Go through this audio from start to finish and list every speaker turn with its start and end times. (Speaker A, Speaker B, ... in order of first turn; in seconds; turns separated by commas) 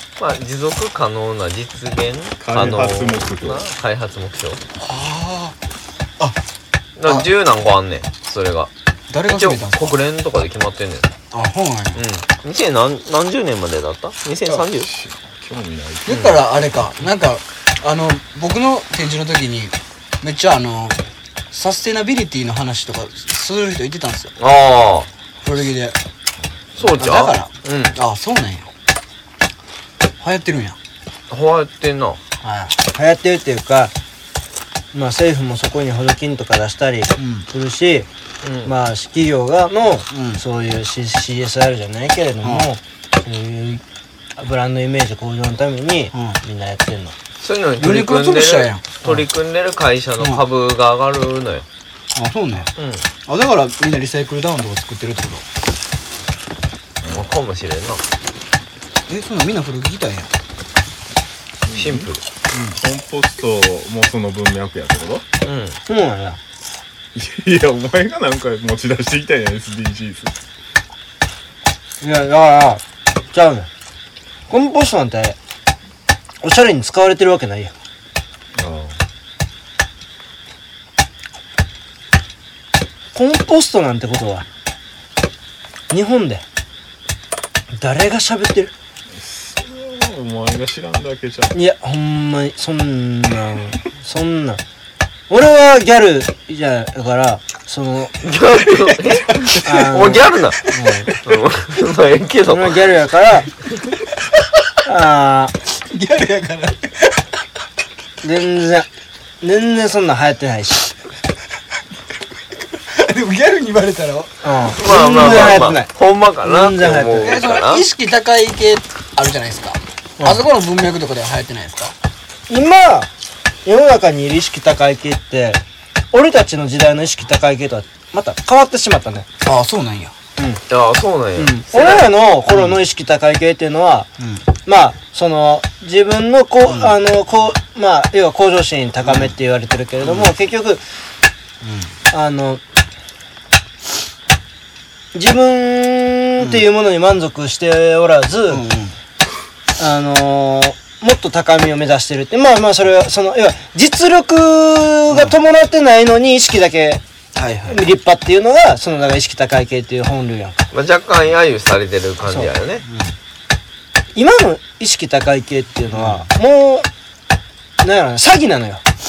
Speaker A: 0.2-4.6, Speaker B: 2.4-3.6, Speaker C: 4.8-5.6, Speaker A: 7.0-8.7, Speaker C: 7.0-7.3, Speaker C: 9.1-10.0, Speaker A: 9.3-11.1, Speaker C: 11.3-12.0, Speaker A: 11.9-14.9, Speaker B: 14.8-16.2, Speaker C: 16.1-24.3, Speaker A: 16.1-16.4, Speaker A: 24.4-25.1, Speaker C: 25.4-26.0, Speaker A: 26.8-28.0, Speaker C: 27.0-28.7, Speaker C: 30.2-30.8, Speaker A: 31.3-32.2, Speaker C: 32.4-32.8, Speaker D: 32.9-33.9, Speaker D: 34.9-38.1, Speaker C: 37.2-37.5, Speaker A: 38.4-38.7, Speaker D: 38.6-43.8, Speaker C: 40.1-40.4, Speaker D: 44.4-47.1, Speaker C: 46.1-46.4, Speaker A: 47.4-51.7, Speaker C: 47.8-49.2, Speaker C: 52.1-52.7, Speaker A: 52.8-53.1, Speaker C: 53.3-55.5, Speaker A: 57.1-58.0, Speaker C: 59.1-60.3, Speaker B: 61.6-62.1, Speaker A: 61.8-62.2, Speaker C: 62.5-62.8, Speaker B: 62.8-65.2, Speaker A: 65.4-65.8, Speaker D: 65.9-66.4, Speaker B: 67.1-70.3, Speaker D: 72.0-73.7, Speaker D: 74.5-75.4, Speaker D: 76.4-77.7, Speaker B: 78.5-79.0, Speaker D: 83.1-84.5, Speaker D: 85.9-86.4, Speaker D: 87.8-88.7, Speaker B: 89.2-91.6, Speaker D: 91.5-94.6, Speaker D: 95.3-98.2, Speaker A: 98.2-100.6, Speaker D: 99.6-101.1, Speaker A: 101.2-102.8, Speaker D: 102.5-103.5, Speaker D: 104.8-105.5, Speaker C: 105.7-107.2, Speaker D: 108.2-108.9, Speaker D: 109.4-110.9, Speaker C: 112.7-114.5, Speaker D: 114.4-115.9, Speaker A: 114.8-117.8, Speaker C: 115.0-115.6, Speaker D: 116.4-117.4, Speaker C: 117.2-121.9, Speaker D: 120.2-120.4, Speaker D: 122.5-123.1, Speaker D: 123.7-129.3, Speaker C: 129.4-130.2, Speaker D: 130.4-130.6, Speaker A: 130.7-132.1, Speaker D: 131.4-134.1, Speaker C: 132.5-132.8, Speaker C: 134.2-134.4, Speaker D: 134.7-140.8, Speaker C: 136.7-137.0, Speaker C: 139.0-139.3, Speaker C: 140.0-140.3, Speaker C: 141.6-141.9, Speaker D: 142.1-142.6, Speaker D: 145.1-148.6, Speaker C: 146.4-146.7, Speaker C: 148.5-148.9, Speaker D: 149.8-157.0, Speaker C: 155.1-155.4, Speaker C: 157.3-157.8, Speaker D: 157.7-160.7, Speaker A: 160.7-162.8, Speaker C: 162.8-163.2, Speaker D: 164.2-166.9, Speaker C: 165.9-166.3, Speaker D: 167.8-168.8